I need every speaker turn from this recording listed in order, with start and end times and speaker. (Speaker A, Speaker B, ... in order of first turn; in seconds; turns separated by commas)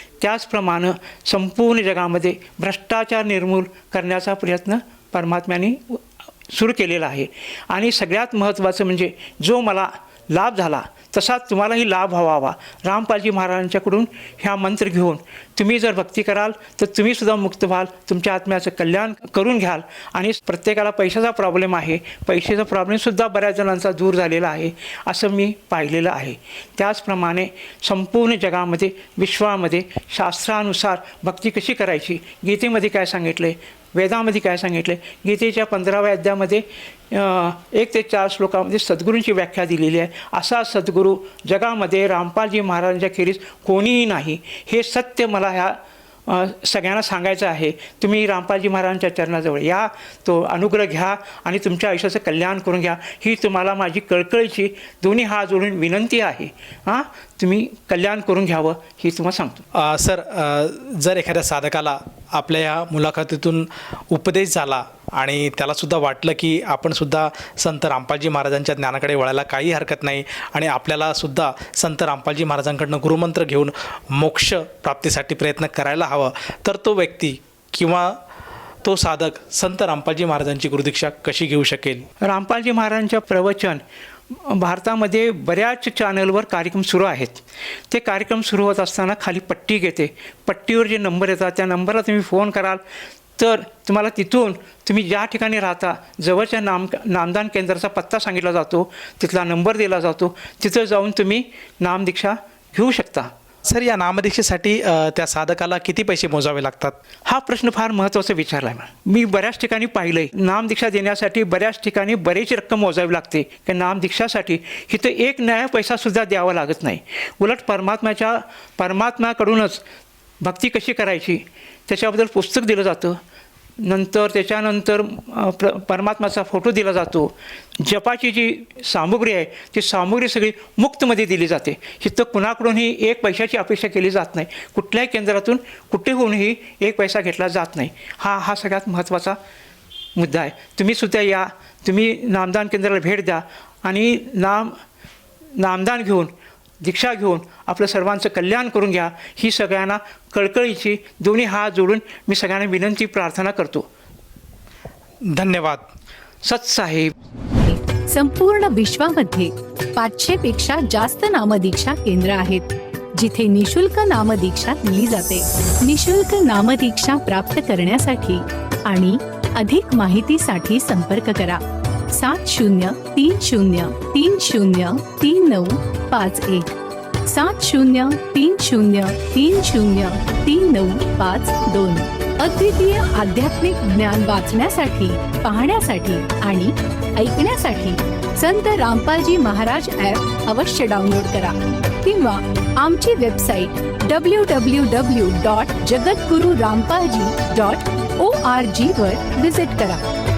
Speaker A: 0.2-59.6, Speaker B: 59.8-78.2, Speaker B: 78.8-82.1, Speaker A: 82.2-92.8, Speaker A: 93.4-103.3, Speaker B: 103.7-107.0, Speaker A: 107.3-119.8, Speaker A: 120.4-123.2, Speaker A: 123.8-139.4, Speaker A: 140.2-144.7, Speaker A: 145.6-153.9, Speaker B: 155.3-155.9, Speaker A: 156.4-157.1, Speaker C: 157.6-176.7, Speaker C: 177.3-200.0